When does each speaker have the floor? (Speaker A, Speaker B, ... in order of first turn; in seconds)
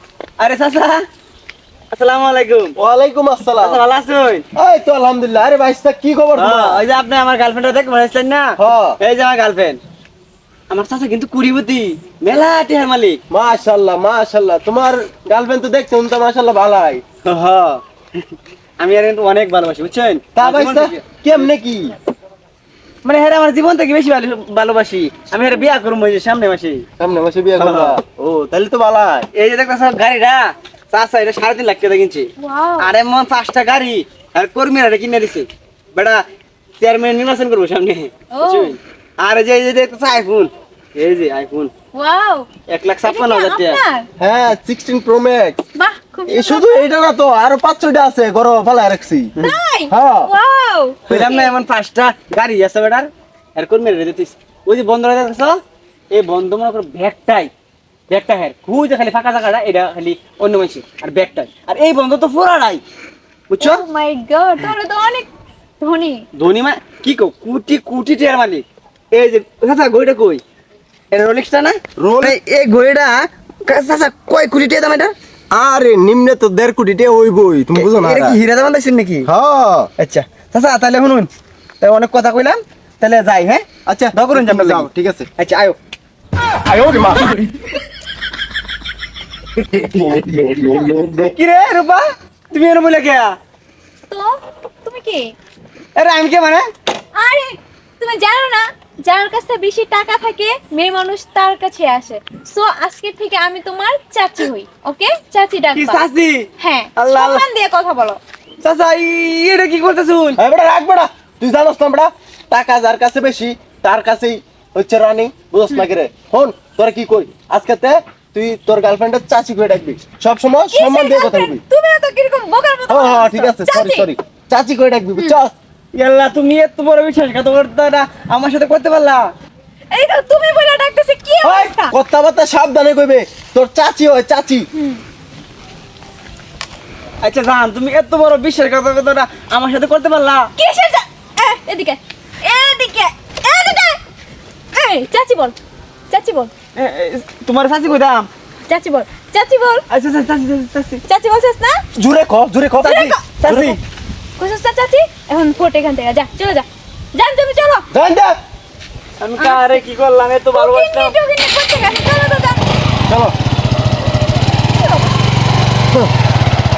Speaker A: 0.4-1.0, 1.9-2.7, 3.6-4.5, 6.4-9.8, 10.7-13.2, 17.2-17.8, 18.8-21.5, 23.1-26.9, 27.6-28.0, 29.3-32.3, 32.8-36.2, 36.8-41.7, 42.7-43.8, 51.1-55.6, 56.1-57.5, 58.1-62.8, 63.5-63.8, 66.4-70.4, 71.1-75.1, 77.8-79.3, 80.0-81.3, 81.8-85.8, 91.3-93.4, 96.0-96.7, 105.8-107.5, 108.6-110.4, 125.9-129.3, 137.2-140.5, 146.8-148.3, 149.9-151.0, 153.4-153.8, 159.2-161.2
Speaker B: 2.8-3.8, 4.5-6.8, 8.6-9.0, 13.3-17.0, 20.3-21.9, 27.0-29.3, 44.2-45.6, 46.3-49.3, 49.9-50.3, 72.0-72.4, 75.5-78.4, 79.3-79.9, 83.9-85.3, 86.6-87.6, 89.6-91.3, 110.4-121.6, 122.9-125.5, 131.4-134.7, 151.9-153.8, 157.9-158.3, 163.1-163.3
Speaker C: 32.4-32.9, 38.3-38.7, 41.9-42.5, 43.0-44.1, 45.7-46.9, 49.4-51.5, 63.6-65.3, 65.8-66.2, 94.1-95.3, 97.2-106.0, 106.6-108.2, 120.7-124.1, 129.9-131.9, 134.7-135.0, 140.6-144.0, 144.7-145.6, 146.1-146.5, 148.7-149.8, 151.1-151.8, 152.8-153.2, 154.4-157.8, 159.4-159.8, 160.5-162.6, 164.6-165.2